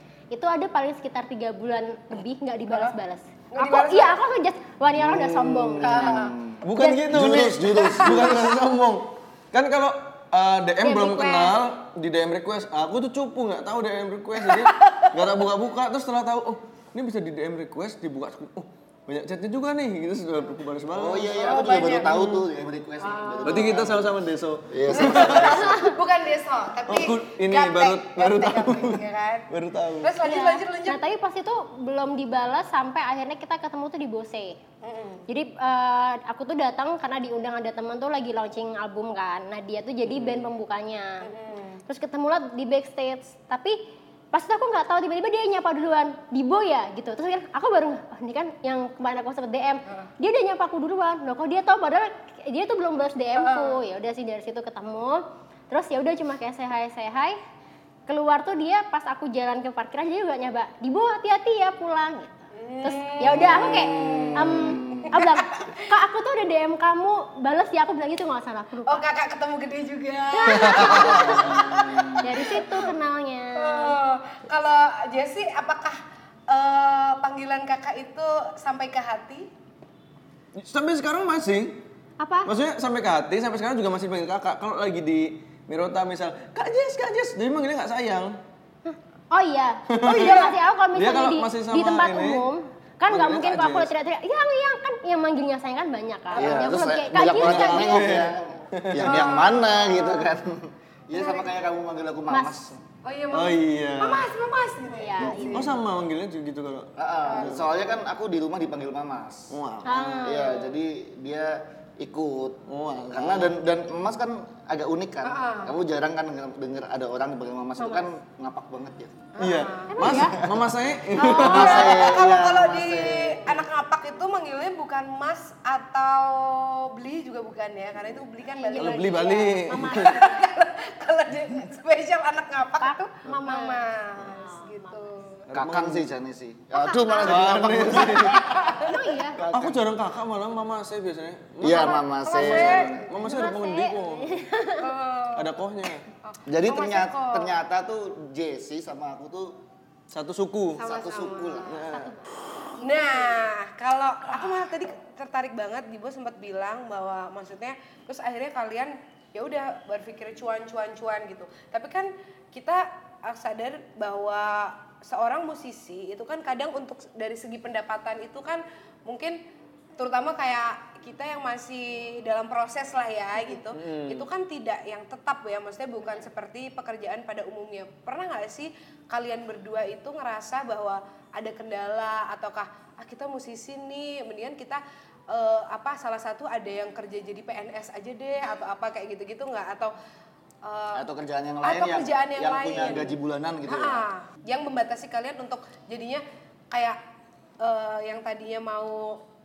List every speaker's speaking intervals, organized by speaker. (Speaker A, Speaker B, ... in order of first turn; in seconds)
Speaker A: 0.3-6.2, 6.8-7.4, 10.8-11.6, 25.5-25.9, 30.2-34.6, 35.3-41.3, 41.9-43.8, 44.3-57.4, 58.1-62.3, 62.8-69.0, 70.3-74.0, 82.2-82.5, 88.9-98.2, 102.3-102.6, 105.0-105.7, 109.8-110.7, 117.8-118.1, 119.9-120.4, 121.2-122.0, 128.5-130.5, 132.8-135.1, 136.7-137.6, 138.5-139.4, 143.2-144.9, 151.9-153.4
Speaker B: 3.5-4.2, 5.8-6.4, 7.8-8.4, 14.4-15.1, 21.3-22.4, 23.0-23.7, 24.9-29.5, 30.0-31.0, 34.8-35.3, 41.2-41.8, 53.4-53.8, 62.5-65.9, 68.9-72.9, 73.6-79.5, 90.1-90.5, 96.3-96.6, 99.0-100.3, 101.1-101.6, 103.0-105.8, 107.2-107.7, 115.2-115.8, 119.3-120.1, 121.2-135.5, 138.5-139.0, 142.3-143.1, 144.8-145.5, 146.2-147.6, 150.8-151.8, 152.8-169.4, 170.0-189.9, 190.6-191.1, 191.6-193.2, 193.7-197.0, 197.6-199.2
Speaker C: 5.0-6.1, 6.6-21.4, 23.4-25.8, 26.9-30.1, 40.1-40.5, 70.6-72.1, 80.5-81.8, 82.5-88.4, 89.9-92.5, 93.1-93.9, 97.2-99.3, 103.3-104.3, 105.5-107.7, 109.5-110.2, 112.7-113.6, 119.4-122.1, 128.8-130.2, 135.5-136.1, 137.2-138.5, 139.4-144.5, 145.3-146.1, 150.1-150.8, 151.7-152.1, 173.7-174.3
Speaker D: 5.8-8.5, 20.9-24.1, 24.7-25.7, 63.4-65.2, 96.4-102.8, 105.2-105.6, 107.0-109.6, 110.2-119.3, 120.1-123.6, 135.5-139.9, 141.6-143.1, 146.5-149.6, 150.8-151.8, 190.9-194.1